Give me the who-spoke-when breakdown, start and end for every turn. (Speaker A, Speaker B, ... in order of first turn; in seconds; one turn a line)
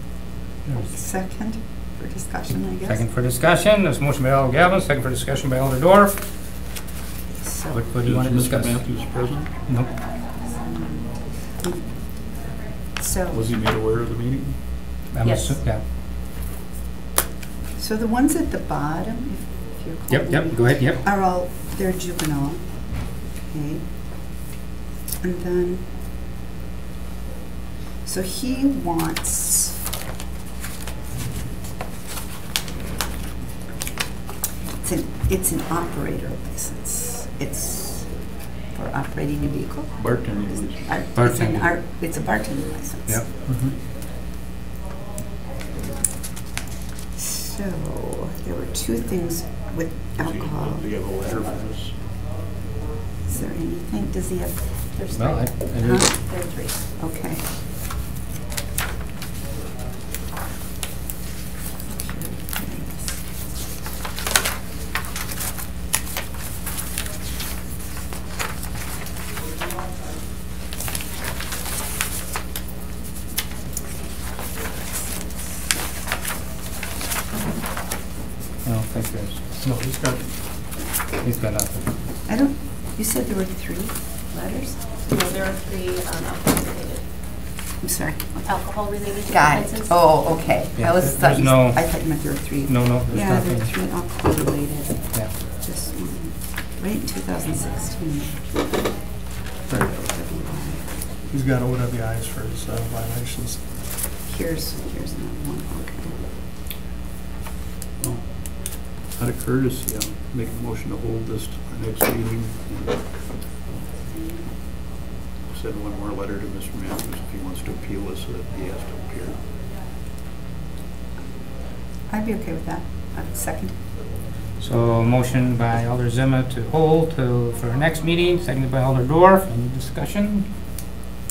Speaker A: 0.7-3.0
Speaker B: 2.9-6.2
Speaker A: 7.4-7.8
Speaker B: 7.7-9.9
Speaker C: 8.0-9.5
Speaker A: 10.4-12.3
Speaker A: 12.9-13.4
Speaker C: 13.3-14.6
Speaker B: 15.1-15.8
Speaker D: 15.2-15.6
Speaker A: 17.8-23.8
Speaker B: 20.1-21.0
Speaker A: 25.2-25.9
Speaker A: 28.0-29.8
Speaker A: 34.8-40.1
Speaker C: 40.0-41.0
Speaker A: 40.8-43.3
Speaker B: 41.1-41.8
Speaker E: 43.4-43.8
Speaker A: 47.2-50.8
Speaker C: 50.1-51.9
Speaker A: 53.3-55.1
Speaker D: 55.0-56.8
Speaker B: 55.1-56.1
Speaker A: 55.8-56.2
Speaker A: 56.9-57.4
Speaker A: 61.9-63.2
Speaker B: 78.6-79.4
Speaker E: 79.6-80.3
Speaker B: 81.2-81.8
Speaker A: 82.3-84.8
Speaker D: 85.1-87.1
Speaker A: 87.8-98.5
Speaker D: 88.4-90.3
Speaker B: 90.8-92.1
Speaker B: 92.6-93.7
Speaker E: 99.7-100.0
Speaker A: 99.8-100.9
Speaker E: 101.3-103.8
Speaker A: 104.2-106.3
Speaker C: 108.0-113.4
Speaker C: 115.5-119.4
Speaker A: 122.1-123.8
Speaker B: 124.6-130.5